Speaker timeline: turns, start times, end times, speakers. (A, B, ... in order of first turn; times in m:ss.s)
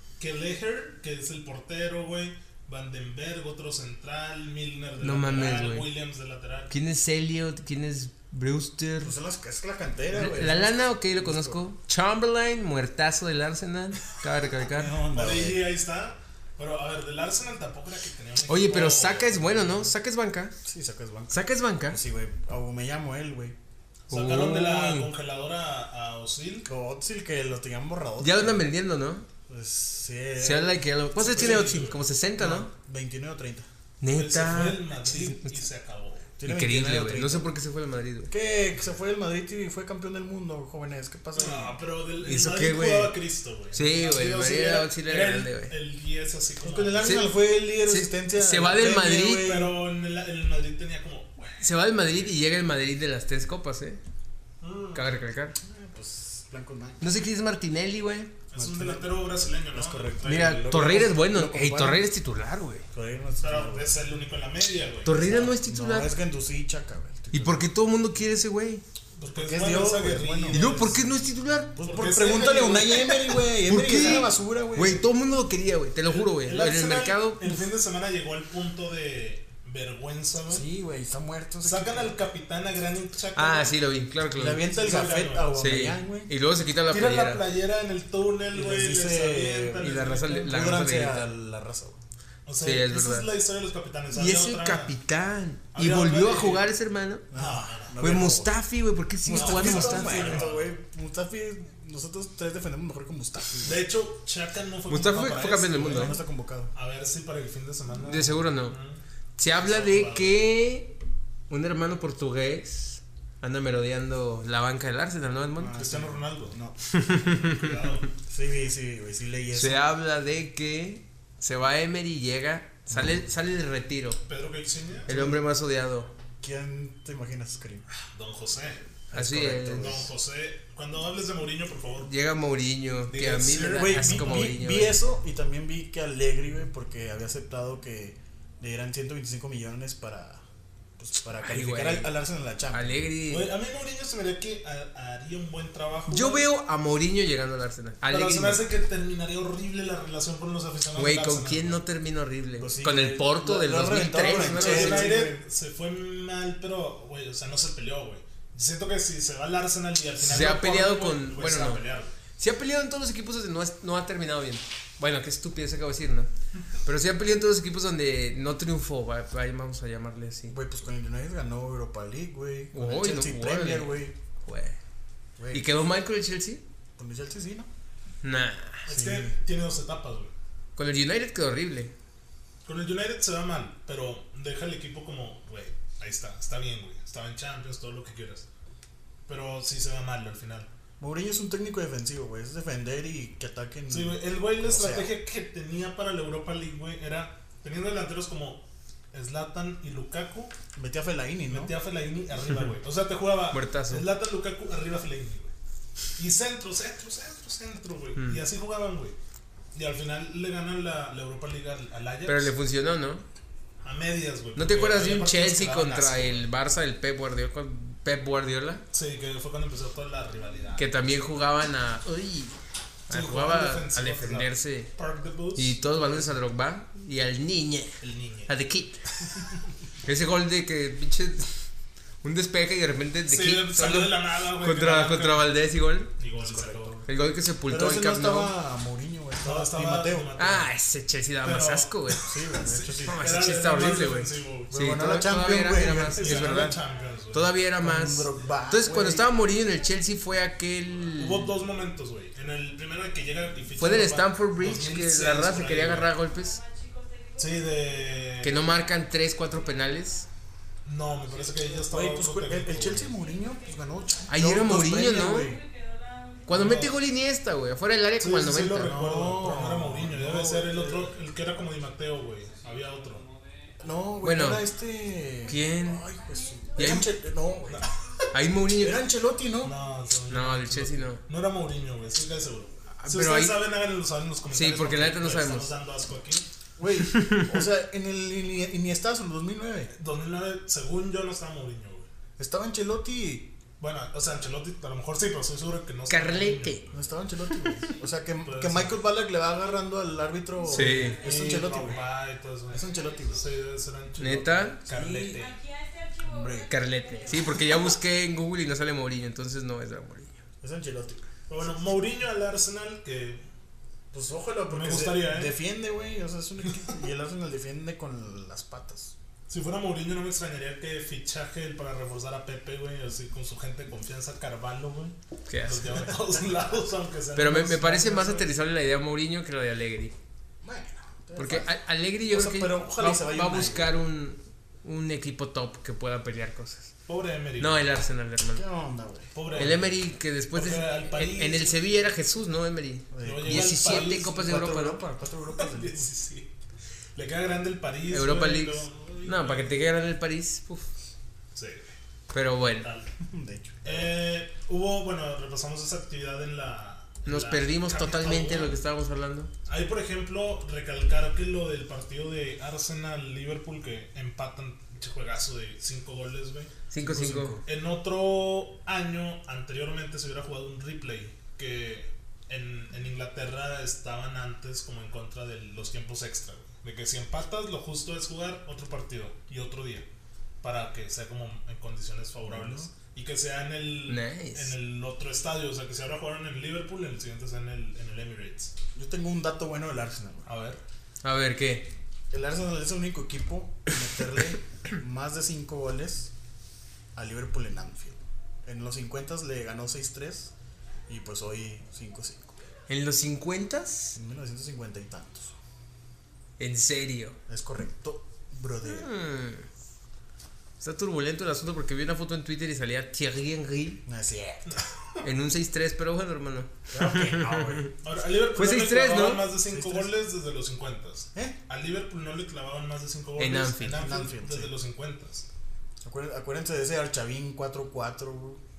0:00.2-0:06.7 A
0:05.0-0:05.9 B
0:06.7-0:09.1 B
0:09.0-0:11.6 C
0:10.1-0:15.0 B
0:14.6-0:15.7 C
0:15.1-0:19.9 A
0:18.5-0:20.5 B
0:20.6-0:23.6 C
0:21.3-0:22.0 B
0:24.1-0:26.7 A
0:24.1-0:25.1 B
0:26.6-0:28.6 C
0:28.2-0:29.2 B
0:29.5-0:31.8 C
0:30.4-0:32.7 B
0:31.2-0:32.0 A
0:32.4-0:33.7 C
0:34.0-0:35.6 B
0:34.1-0:36.3 A
0:36.4-0:37.5 C
0:36.4-0:38.3 B
0:38.3-0:41.8 C
0:41.3-0:47.3 A
0:42.2-0:43.1 B
0:43.7-0:45.7 B
0:46.6-0:49.8 C
0:47.0-0:49.5 B
0:49.3-0:52.2 A
0:51.6-0:54.0 B
0:54.6-0:55.2 A
0:54.9-0:55.6 B
0:55.6-0:57.0 C
0:57.0-0:58.3 B
0:58.5-1:01.1 A
0:58.5-1:02.1 C
1:00.2-1:02.9 B
1:02.9-1:03.9 C
1:03.4-1:05.6 A
1:05.0-1:06.1 B
1:05.6-1:07.7 C
1:07.3-1:08.8 B
1:09.2-1:11.0 A
1:09.3-1:10.9 C
1:10.5-1:11.7 B
1:11.7-1:15.0 C
1:11.8-1:13.3 A
1:13.6-1:17.6 B
1:16.0-1:20.6 A
1:20.5-1:22.2 C
1:21.6-1:23.8 A
1:23.4-1:24.7 B
1:24.3-1:26.3 C
1:24.7-1:25.5 A
1:25.5-1:27.4 B
1:26.9-1:30.6 A
1:28.5-1:32.0 C
1:29.8-1:31.3 B
1:32.4-1:34.9 A
1:32.6-1:33.3 B
1:34.1-1:37.2 B
1:35.7-1:36.7 A
1:37.3-1:38.5 C
1:37.3-1:37.9 A
1:38.0-1:40.4 B
1:39.2-1:43.8 C
1:39.3-1:40.7 A
1:43.6-1:46.2 A
1:44.9-1:46.2 B
1:45.8-1:46.7 C
1:46.7-1:49.0 A
1:48.0-1:48.8 B
1:49.4-1:51.0 B
1:49.5-1:50.5 A
1:51.5-1:55.8 B
1:55.6-1:56.8 C
1:55.7-1:56.6 A
1:56.9-1:57.8 B
1:57.2-1:58.1 A
1:58.3-1:59.9 C
1:59.5-2:04.2 B
2:02.9-2:03.2 C
2:04.2-2:05.1 A
2:05.1-2:05.4 C
2:05.1-2:06.1 B
2:06.4-2:07.8 C
2:07.9-2:08.8 A
2:09.1-2:10.1 C
2:09.1-2:10.0 B
2:09.7-2:12.1 A
2:12.0-2:15.0 B
2:13.1-2:14.5 A
2:13.7-2:20.4 C
2:21.0-2:23.1 C
2:21.4-2:22.1 B
2:22.7-2:23.5 B
2:23.3-2:26.4 A
2:26.1-2:28.6 B
2:28.1-2:31.8 A
2:30.9-2:35.2 B
2:32.6-2:35.4 C
2:34.2-2:42.1 A
2:40.2-2:41.8 B
2:42.4-2:46.3 B
2:46.8-2:50.6 B
2:50.5-2:54.2 C
2:52.7-2:54.8 B
2:55.4-2:55.7 C
2:55.5-2:56.6 B
2:57.0-2:57.7 C
2:58.2-2:58.9 B
2:58.8-3:00.3 A
2:58.9-2:59.4 C
3:00.8-3:01.9 B
3:02.6-3:08.4 A
3:09.3-3:10.7 A
3:11.0-3:15.1 C
3:13.9-3:20.5 A
3:20.7-3:21.7 C
3:21.5-3:25.5 A
3:23.5-3:24.1 B
3:26.2-3:29.1 A
3:29.7-3:32.5 A
3:32.2-3:33.2 B
3:33.8-3:36.5 A
3:34.6-3:38.8 B
3:38.9-3:41.1 A
3:40.8-3:42.6 B
3:43.1-3:44.9 B
3:43.1-3:46.3 A
3:45.5-3:49.0 B
3:48.0-3:48.5 A
3:50.0-3:51.6 B
3:52.2-3:56.1 B
3:53.3-3:55.5 A
3:56.2-3:57.0 A
3:56.3-3:57.1 C
3:57.1-3:58.6 B
3:57.6-4:00.3 C
3:59.4-4:00.7 A
4:00.4-4:02.2 B
4:01.4-4:04.7 A
4:02.2-4:03.3 C
4:03.0-4:06.8 B
4:04.7-4:06.8 C
4:06.0-4:07.5 A
4:06.6-4:07.2 D
4:07.3-4:11.5 B
4:07.8-4:09.3 C
4:09.0-4:11.7 D
4:11.2-4:16.1 A
4:13.8-4:16.6 B
4:16.1-4:20.3 D
4:17.4-4:18.6 A
4:18.4-4:20.2 B
4:20.8-4:23.1 A
4:21.4-4:21.8 D
4:21.8-4:25.6 C
4:23.0-4:27.3 D
4:24.3-4:25.5 B
4:26.4-4:29.0 B
4:26.5-4:27.0 A
4:28.2-4:33.2 A
4:28.8-4:31.1 C
4:33.8-4:37.9 C
4:34.2-4:34.6 B
4:35.4-4:36.1 B
4:36.0-4:37.9 D
4:36.8-4:37.2 B
4:38.3-4:39.1 B
4:38.7-4:39.8 C
4:39.6-4:46.5 A
4:40.3-4:41.2 B
4:42.9-4:43.6 B
4:44.5-4:45.7 B
4:46.8-4:49.9 C
4:47.0-4:47.5 B
4:49.9-4:52.1 A
4:52.4-4:53.5 C
4:53.8-4:56.9 A
4:56.1-4:56.9 B
4:56.9-5:02.1 C
4:58.4-4:59.0 A
5:00.7-5:01.2 B
5:00.7-5:05.6 A
5:00.8-5:01.8 D
5:02.7-5:03.5 C
5:02.7-5:03.5 D
5:04.2-5:04.8 B
5:04.8-5:05.4 C
5:05.2-5:08.0 D
5:06.2-5:06.7 C
5:06.7-5:10.4 B
5:10.6-5:11.3 C
5:11.5-5:13.4 A
5:14.1-5:19.1 C
5:14.7-5:15.6 A
5:19.5-5:28.6 A
5:25.5-5:26.1 B
5:27.3-5:30.1 B
5:30.6-5:31.8 C
5:31.4-5:36.9 B
5:32.3-5:33.9 C
5:37.1-5:38.0 A
5:37.6-5:38.6 B
5:38.5-5:39.8 C
5:39.3-5:40.0 A
5:39.5-5:45.0 B
5:40.5-5:41.9 A
5:43.1-5:46.1 C
5:43.2-5:44.3 A
5:45.6-5:46.5 A
5:47.1-5:49.8 A
5:48.1-5:50.9 B
5:51.5-5:51.9 A
5:52.3-5:52.9 B
5:52.6-5:53.1 A
5:53.2-5:54.1 C
5:53.8-5:58.8 A
5:57.2-5:59.5 B
5:59.6-6:06.7 A
6:06.9-6:07.6 B
6:07.0-6:07.6 C
6:07.6-6:20.0 A
6:20.6-6:28.7 A
6:22.4-6:22.9 C
6:24.1-6:24.7 B
6:28.9-6:30.4 C
6:30.4-6:30.8 A
6:31.2-6:31.9 B
6:32.3-6:36.3 C
6:37.1-6:40.5 C
6:41.1-6:42.6 C
6:42.9-6:44.2 B
6:44.1-6:45.5 C
6:46.6-6:47.4 B
6:47.5-6:49.1 C
6:48.8-6:49.7 B
6:50.8-6:54.0 B
6:54.0-6:54.7 C
6:54.6-6:55.2 A
6:55.2-6:57.9 B
6:56.9-6:57.9 C
6:58.0-7:05.5 A
6:58.5-6:59.5 B
6:59.6-7:00.1 C
7:03.4-7:04.1 B
7:03.9-7:04.7 C
7:06.0-7:08.6 C